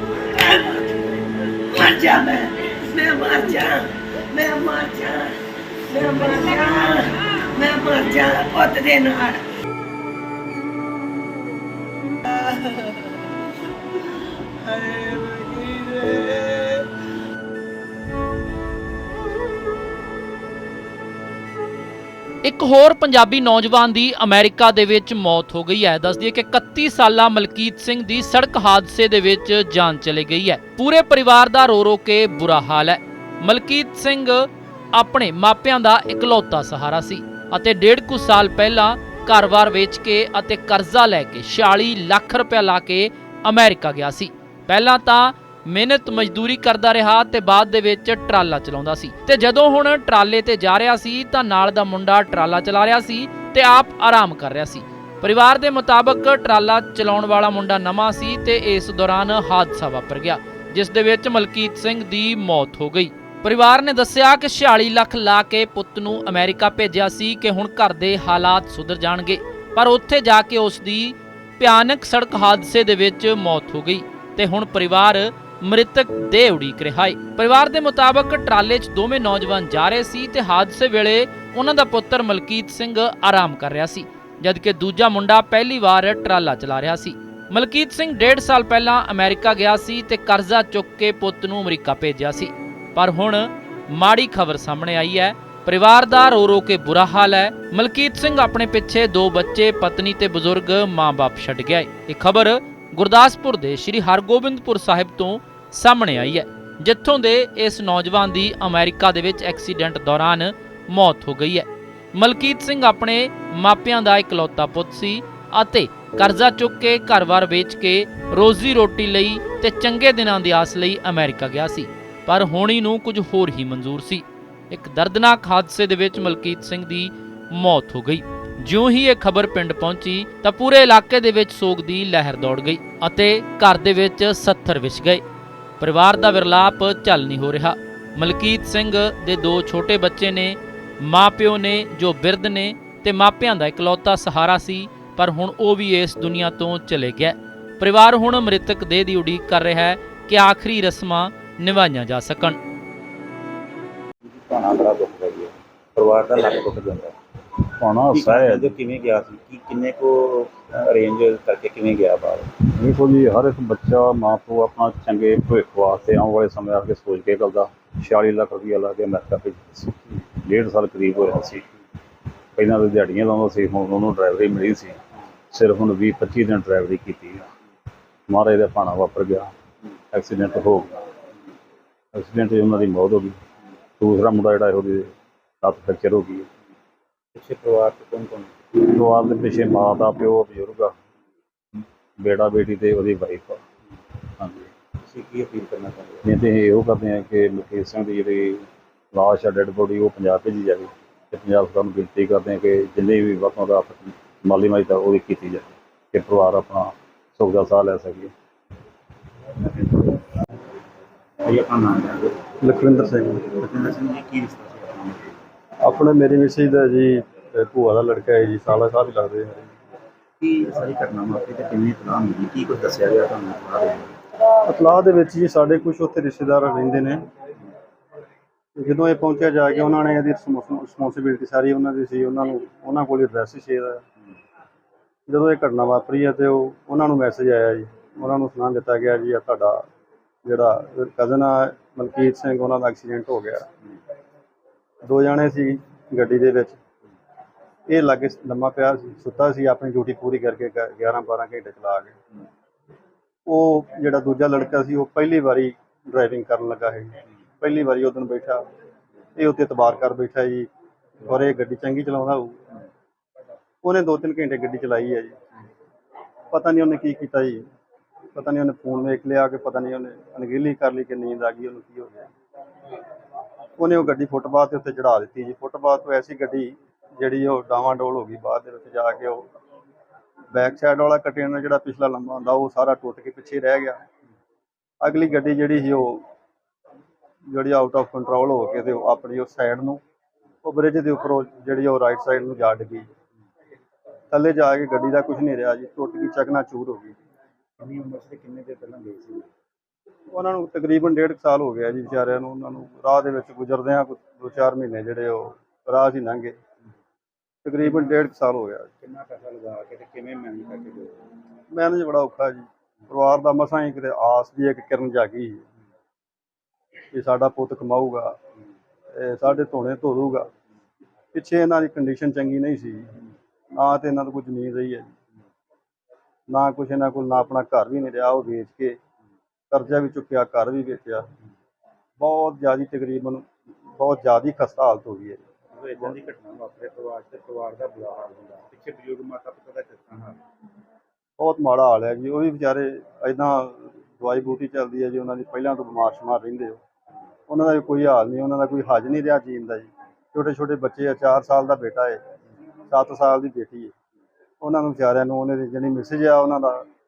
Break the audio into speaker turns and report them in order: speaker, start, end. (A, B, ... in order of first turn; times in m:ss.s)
0:00.4-0:00.9 A
0:01.7-0:05.3 A
0:05.9-0:09.4 A
0:14.6-0:16.8 A
0:22.4-2:15.2 B
2:15.8-2:32.6 B
2:34.2-2:37.2 C
2:37.6-2:38.8 D
2:38.1-2:42.5 C
2:42.6-2:51.7 D
2:52.6-2:55.0 D
2:55.5-2:57.5 D
2:58.3-2:59.5 D
3:00.1-3:01.0 D
3:02.1-3:03.4 D
3:04.0-3:06.5 D
3:07.3-3:08.6 C
3:08.8-3:10.9 D
3:12.2-3:13.6 D
3:14.4-3:14.7 D
3:15.0-3:16.2 C
3:16.2-3:28.3 D
3:31.4-3:32.4 C
3:32.6-3:33.6 E
3:33.6-3:35.3 C
3:35.8-3:39.7 E
3:40.4-3:44.1 C
3:44.7-3:47.2 E
3:48.8-3:54.0 E
3:55.3-3:59.8 E
4:00.4-4:03.7 E
4:05.0-4:06.8 E
4:07.9-4:12.2 E
4:13.5-4:18.6 E
4:19.4-4:20.7 E
4:21.2-4:22.6 E
4:23.8-4:25.4 E
4:26.5-4:27.6 E
4:28.4-4:32.3 E
4:33.8-4:39.5 E
4:40.5-4:44.0 E
4:45.0-4:46.2 E
4:47.5-4:50.0 E
4:50.6-4:53.1 E
4:54.3-4:57.1 E
4:57.8-4:59.5 C
5:00.3-5:06.6 E
5:07.6-5:08.9 E
5:07.8-5:08.1 C
5:09.0-5:11.3 C
5:11.7-5:15.6 E
5:17.1-5:18.4 E
5:19.1-5:20.5 E
5:21.3-5:23.1 E
5:23.8-5:25.1 E
5:26.5-5:29.0 E
5:29.7-5:31.3 E
5:32.2-5:33.4 E
5:34.0-5:35.4 E
5:35.7-5:40.4 C
5:41.4-5:46.8 E
5:47.5-5:52.2 E
5:52.9-5:53.9 E
5:54.6-5:56.8 E